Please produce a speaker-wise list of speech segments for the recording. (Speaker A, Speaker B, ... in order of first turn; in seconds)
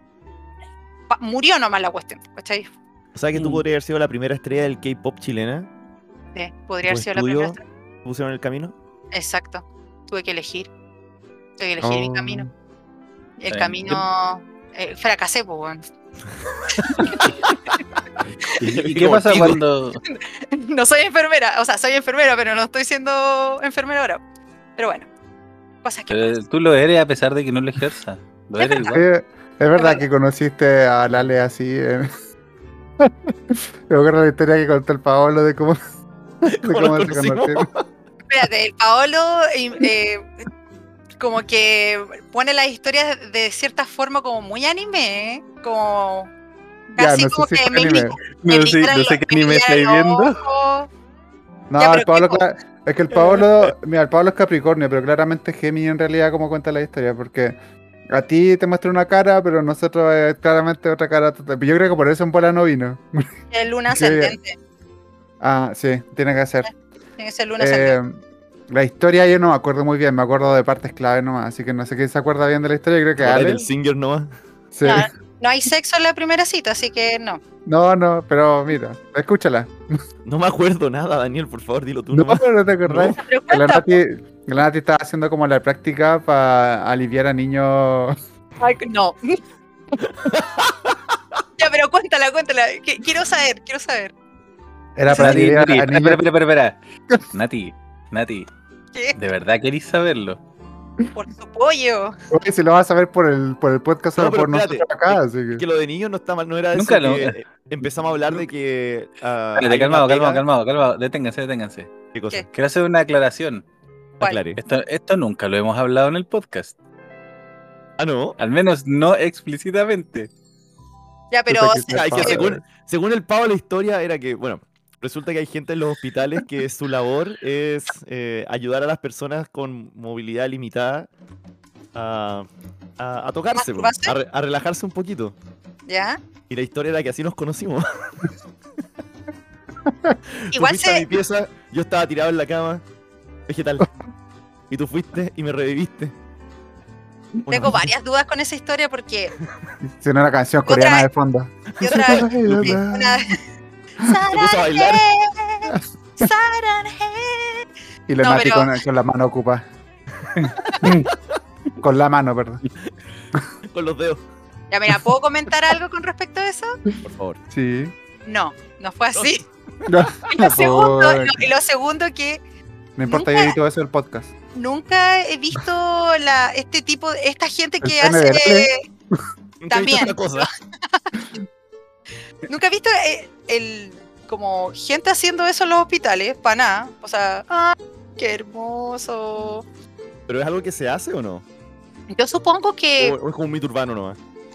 Speaker A: 1.1-2.7, 6.3-7.6, 9.1-10.7, 11.6-12.5, 13.4-15.8, 16.8-17.3, 20.0-24.2, 24.8-25.1, 25.8-26.4, 28.6-29.0, 29.8-30.0, 38.3-40.3, 41.2-46.3, 46.9-50.9, 51.8-52.5, 63.5-64.6, 67.2-68.0, 74.8-77.4, 83.2-84.0, 88.6-89.4, 91.6-94.1, 95.1-95.4, 101.1-102.1, 121.3-122.4, 133.5-134.1, 135.9-136.2, 140.5-141.1, 147.5-149.3, 150.7-151.1, 151.8-153.4, 154.0-157.7, 158.2-158.8, 164.7-166.8, 168.2-169.4, 170.3-172.4, 173.1-173.6, 174.5-178.8, 179.7-181.1, 182.5-189.6, 192.1-193.2
Speaker B: 3.1-5.7, 6.8-8.7, 16.8-17.6, 18.6-19.6, 36.5-37.9, 73.2-74.3, 80.2-83.2, 90.0-91.2, 104.2-110.4, 112.1-112.4, 114.2-114.6, 118.0-118.4, 121.9-131.1, 131.9-132.5, 133.0-135.3, 136.5-138.3, 140.3-142.8, 143.5-143.9, 144.7-146.1, 147.5-147.8, 151.8-152.8, 154.3-155.0, 160.3-161.4, 163.7-164.2, 167.0-167.4, 169.1-170.1, 179.6-180.5, 190.3-191.4, 193.0-194.2
Speaker C: 3.3-3.6, 13.5-14.0, 18.6-20.0, 26.1-29.0, 48.3-50.4, 95.1-96.8, 97.3-98.5, 99.2-100.4, 106.7-107.4, 109.6-111.9, 112.5-113.6, 114.6-116.7, 118.4-120.3
Speaker D: 11.8-12.5, 28.8-32.1, 33.0-35.8, 36.4-37.7, 47.0-48.2, 51.7-57.5, 58.1-63.3, 63.9-64.3, 65.4-66.7, 67.6-68.2, 68.7-73.7, 74.7-75.1, 77.7-79.7, 82.1-88.2, 95.0-96.2, 102.3-105.6, 121.5-122.6, 139.9-140.1, 149.9-153.3, 158.1-159.6, 160.4-161.1, 161.8-162.6, 167.5-167.9, 169.8-171.4, 173.0-174.3, 177.8-179.2